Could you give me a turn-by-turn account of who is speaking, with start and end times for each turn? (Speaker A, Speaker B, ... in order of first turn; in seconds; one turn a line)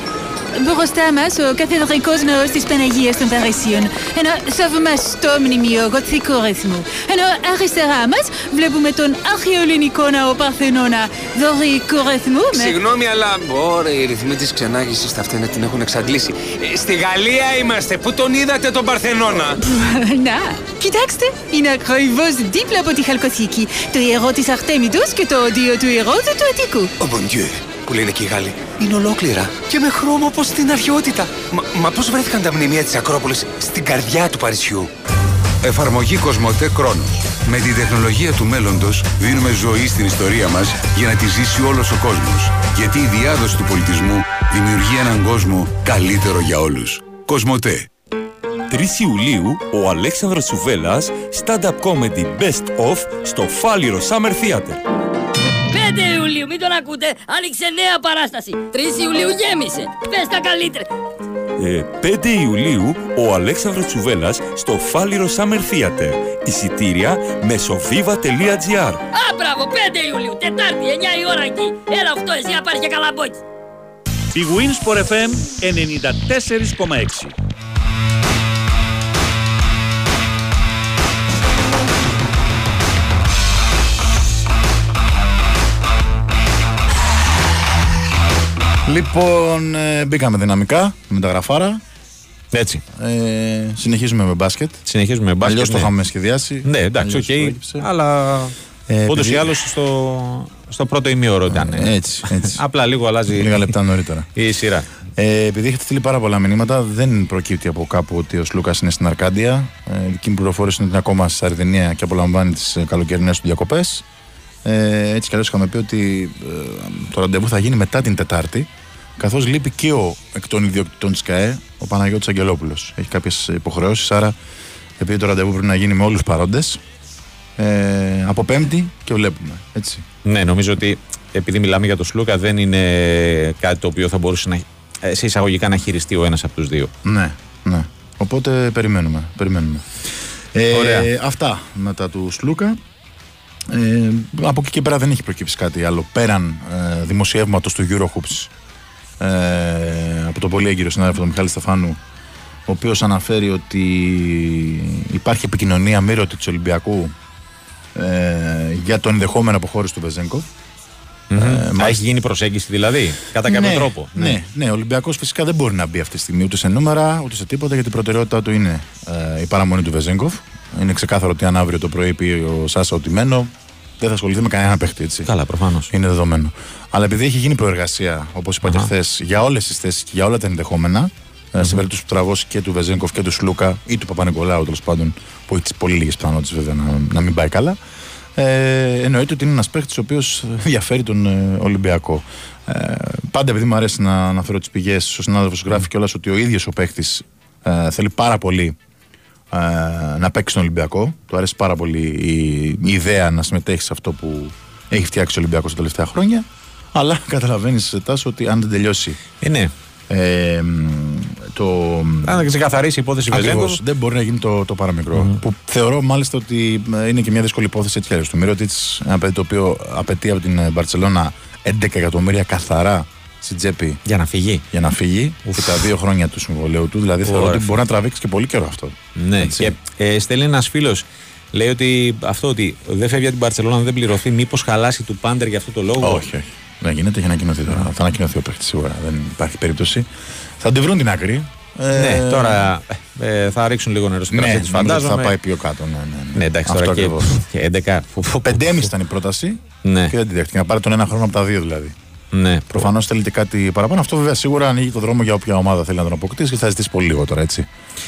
Speaker A: 0.6-12.8
Speaker B: 12.6-19.6
Speaker A: 19.6-26.9
Speaker B: 27.0-34.9
Speaker C: 35.6-47.9
Speaker D: 48.7-54.8
Speaker E: 55.7-60.9
Speaker D: 61.6-69.0
Speaker E: 69.1-73.4
Speaker F: 74.3-77.3
Speaker G: 88.8-91.8
Speaker H: 92.5-92.8
Speaker G: 92.9-94.8
Speaker H: 94.9-95.9
Speaker G: 95.4-97.9
Speaker H: 96.7-98.5
Speaker G: 98.9-99.5
Speaker H: 99.1-103.7
Speaker G: 101.5-102.6
Speaker G: 103.3-104.3
Speaker H: 104.3-104.9
Speaker G: 105.2-114.0
Speaker G: 114.7-124.4
Speaker G: 125.0-126.8
Speaker G: 127.6-130.0
Speaker H: 130.2-136.9
Speaker G: 137.0-140.0
Speaker G: 140.5-142.8
Speaker H: 140.7-141.1
Speaker G: 143.7-148.5
Speaker G: 149.2-152.0
Speaker G: 152.7-157.1
Speaker G: 157.9-160.5
Speaker H: 161.3-164.4
Speaker G: 161.3-162.0
Speaker G: 163.4-175.3
Speaker H: 175.3-175.9
Speaker G: 175.9-187.8
Speaker H: 178.6-178.9
Speaker G: 188.3-198.8
Speaker G: 199.5-209.2
Speaker H: 209.4-209.7
Speaker G: 210.1-212.6
Speaker H: 212.2-213.8
Speaker G: 213.3-224.0
Speaker H: 224.1-224.7
Speaker G: 224.7-229.8
Speaker H: 225.5-225.9
Speaker H: 227.3-227.7
Speaker H: 229.2-236.3
Speaker G: 236.0-242.7
Speaker H: 241.9-245.4
Speaker G: 244.3-247.4
Speaker H: 246.3-248.8
Speaker G: 248.4-251.9
Speaker H: 249.8-250.1
Speaker H: 252.3-252.9
Speaker G: 252.7-257.7